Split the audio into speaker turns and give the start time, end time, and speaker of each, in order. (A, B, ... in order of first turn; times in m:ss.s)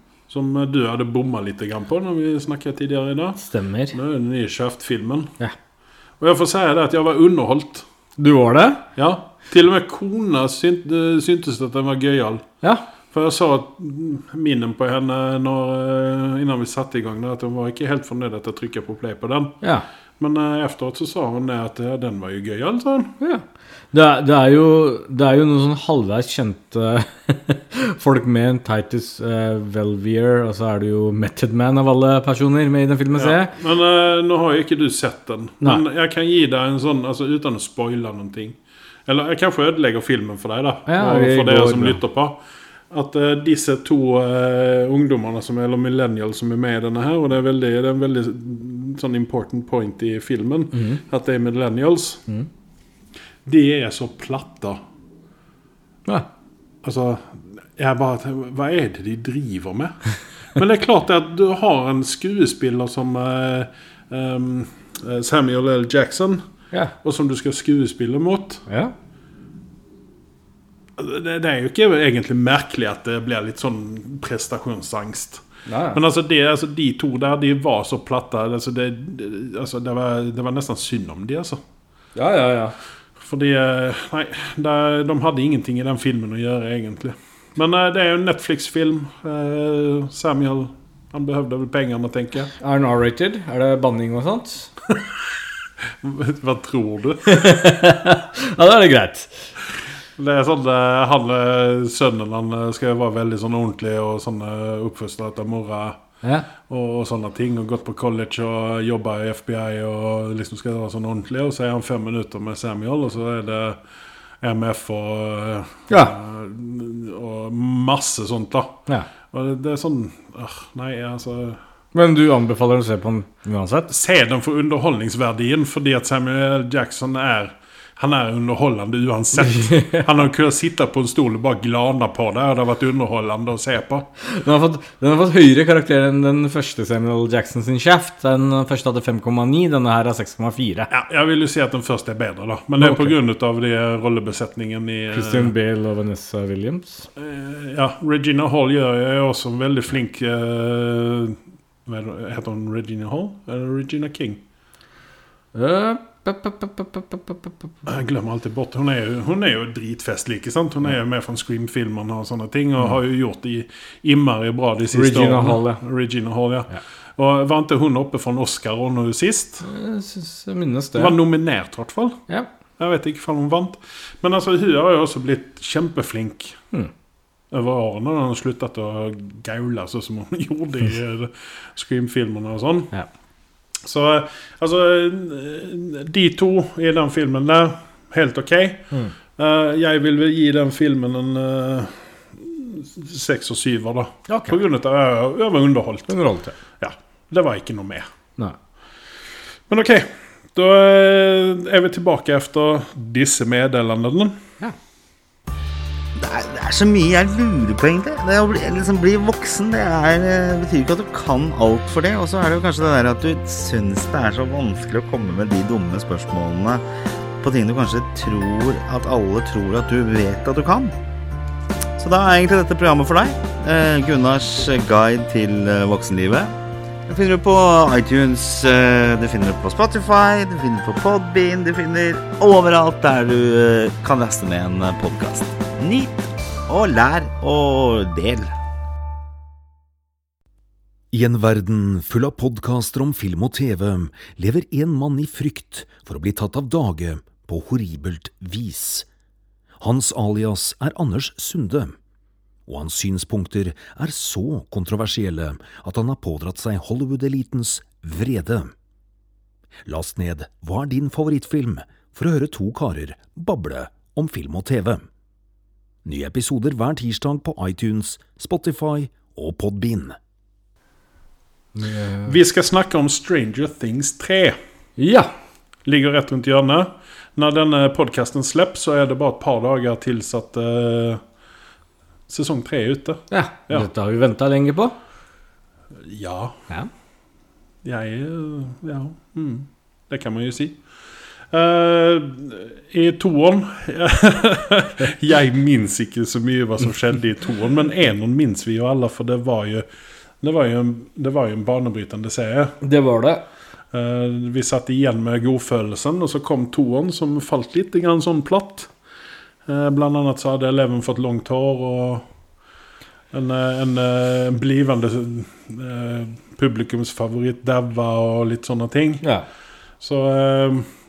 0:00.3-0:03.4 A
0:03.4-0:04.0 B
0:03.9-0:05.3 A
0:06.2-0:07.8 A
0:08.2-0:08.8 B
0:09.0-0:12.4 A
0:13.1-0:19.6 A
0:20.2-0:23.1 A
0:23.2-0:33.5 B
0:33.2-0:38.6 A
0:39.1-0:42.4 A
0:40.9-0:42.0 B
0:42.9-0:52.2 A
0:50.7-0:51.0 B
0:53.5-0:54.8 A
0:56.8-1:00.0 A
1:00.6-1:06.4 A
1:07.0-1:08.6 A
1:08.7-1:08.9 B
1:11.0-1:21.6 A
1:15.7-1:16.0 B
1:22.2-1:22.7 B
1:23.2-1:32.5 A
1:32.6-1:34.7 B
1:36.0-1:37.4 A
1:37.3-1:39.5 B
1:40.2-1:46.0 A
1:46.7-1:53.8 A
1:54.4-2:01.6 A
1:55.9-1:56.2 B
2:01.9-2:03.9 B
2:03.9-2:14.1 A
2:09.4-2:10.1 B
2:14.2-2:20.9 B
2:20.9-2:25.5 A
2:22.8-2:23.1 B
2:25.1-2:27.1 B
2:27.2-2:34.4 A
2:35.6-2:37.5 B
2:37.9-2:49.7 A
2:44.9-2:45.8 B
2:49.6-2:51.2 B
2:51.0-2:52.2 A
2:52.8-2:56.6 A
2:57.5-3:02.9 A
3:03.8-3:16.2 A
3:14.3-3:14.6 B
3:16.1-3:16.6 B
3:16.8-3:18.1 A
3:19.7-3:24.4 A
3:26.2-3:36.8 C
3:37.4-3:41.0 C
3:42.0-3:46.5 C
3:47.1-3:58.5 C
4:01.1-4:09.1 D
4:09.8-4:12.0 D
4:12.7-4:18.7 D
4:19.9-4:25.0 D
4:26.0-4:30.2 D
4:31.8-4:32.3 B
4:32.3-4:34.6 A
4:35.0-4:35.3 B
4:35.8-4:41.2 A
4:42.3-4:43.9 A
4:43.3-4:45.0 B
4:46.0-4:46.6 A
4:47.8-4:50.8 A
4:51.5-4:59.9 A
5:00.4-5:02.8 A
5:02.8-5:03.4 B
5:03.9-5:08.9 A
5:09.7-5:12.2 A
5:13.3-5:19.2 A
5:20.0-5:20.9 A